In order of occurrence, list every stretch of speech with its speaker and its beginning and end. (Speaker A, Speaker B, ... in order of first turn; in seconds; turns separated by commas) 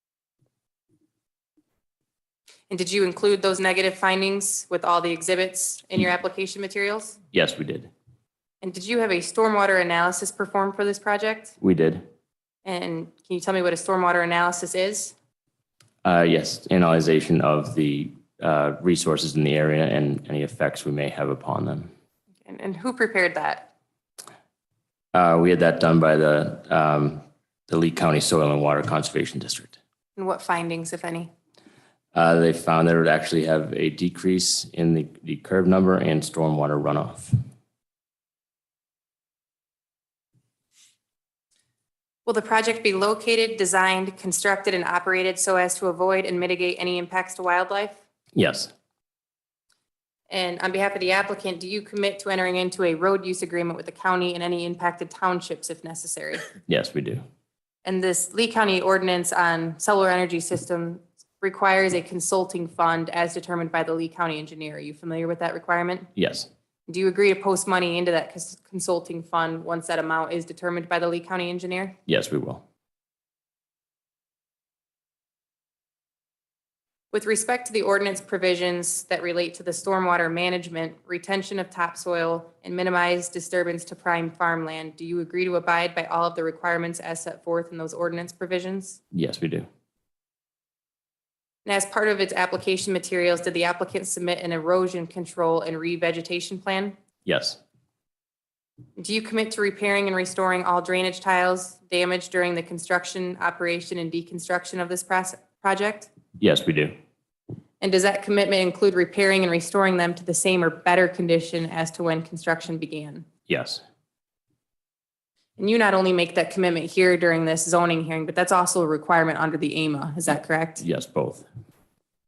Speaker A: 2.7-7.2, Speaker B: 7.3-7.9, Speaker A: 8.6-11.6, Speaker B: 11.6-12.1, Speaker A: 12.7-15.2, Speaker B: 16.0-21.9, Speaker A: 22.4-23.7, Speaker B: 25.1-29.8, Speaker A: 30.2-31.3, Speaker B: 32.1-37.4, Speaker A: 42.3-48.0, Speaker B: 48.4-48.7, Speaker A: 50.3-56.5, Speaker B: 56.7-57.2, Speaker A: 57.9-66.1, Speaker B: 66.2-66.5, Speaker A: 66.9-72.0, Speaker B: 72.1-72.6, Speaker A: 77.1-89.0, Speaker B: 89.1-89.7, Speaker A: 91.7-97.0, Speaker B: 97.2-97.6, Speaker A: 99.0-106.1, Speaker B: 106.4-106.9, Speaker A: 107.8-113.3, Speaker B: 113.5-113.8, Speaker A: 115.6-120.8, Speaker B: 120.8-121.5